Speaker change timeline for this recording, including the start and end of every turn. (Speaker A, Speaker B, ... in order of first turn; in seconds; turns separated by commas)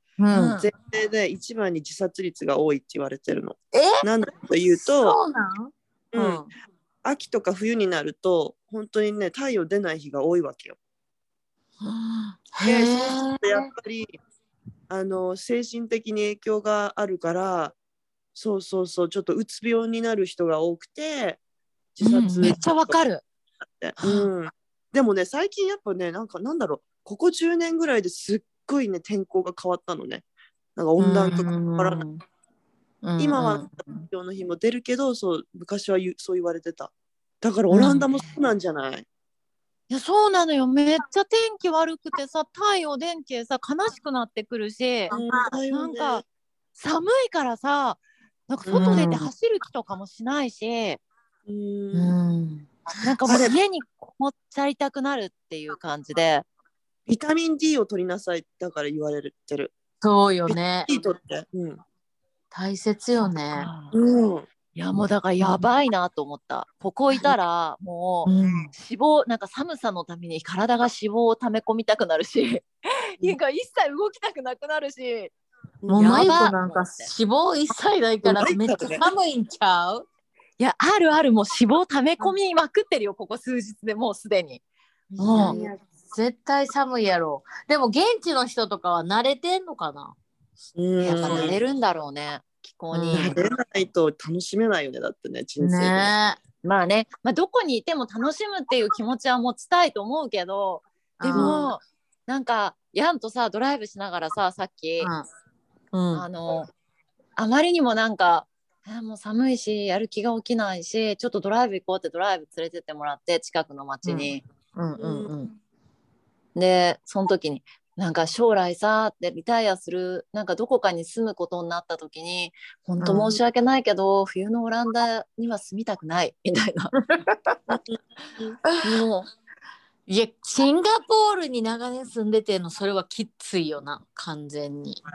Speaker A: 0.2-0.6, Speaker B: 0.3-0.7, Speaker C: 0.6-5.2, Speaker A: 3.7-4.0, Speaker A: 4.8-6.5, Speaker C: 6.1-6.4, Speaker C: 7.0-10.8, Speaker A: 11.8-13.7, Speaker C: 12.6-14.1, Speaker C: 14.9-17.7, Speaker C: 18.4-21.4, Speaker C: 21.9-23.0, Speaker B: 22.0-23.2, Speaker C: 23.7-30.2, Speaker B: 24.0-24.3, Speaker C: 30.8-32.0, Speaker A: 31.0-32.2, Speaker A: 33.0-34.0, Speaker C: 33.2-39.0, Speaker A: 37.7-38.0, Speaker B: 37.9-38.2, Speaker B: 39.9-45.1, Speaker A: 45.1-45.5, Speaker C: 45.1-46.2, Speaker B: 45.7-46.2, Speaker B: 46.8-51.0, Speaker C: 48.6-49.1, Speaker A: 48.7-49.3, Speaker C: 51.5-52.1, Speaker A: 51.9-52.7, Speaker B: 53.0-56.5, Speaker C: 53.3-53.5, Speaker C: 57.1-59.7, Speaker A: 60.0-60.9, Speaker C: 60.5-61.8, Speaker A: 62.5-63.7, Speaker B: 63.5-63.9, Speaker C: 63.9-64.5, Speaker B: 64.7-75.3, Speaker A: 68.2-68.7, Speaker C: 75.8-76.3, Speaker A: 75.9-80.0, Speaker B: 76.0-77.1, Speaker C: 78.2-79.0, Speaker B: 80.6-84.6, Speaker C: 85.1-85.7, Speaker B: 85.2-85.6, Speaker A: 85.3-90.2, Speaker C: 90.8-91.6, Speaker B: 91.0-93.4, Speaker A: 92.9-93.4, Speaker C: 93.1-96.1, Speaker A: 95.6-96.4, Speaker B: 96.6-105.1, Speaker A: 101.2-101.6, Speaker C: 101.3-101.7, Speaker A: 105.0-105.2, Speaker A: 105.9-106.2, Speaker B: 106.1-106.7, Speaker B: 107.4-114.4, Speaker A: 114.0-115.5, Speaker C: 115.0-115.3, Speaker B: 116.5-126.9, Speaker A: 123.0-123.4, Speaker A: 127.1-127.5, Speaker C: 127.8-128.6, Speaker A: 128.7-128.9, Speaker B: 128.8-129.3, Speaker A: 130.1-135.0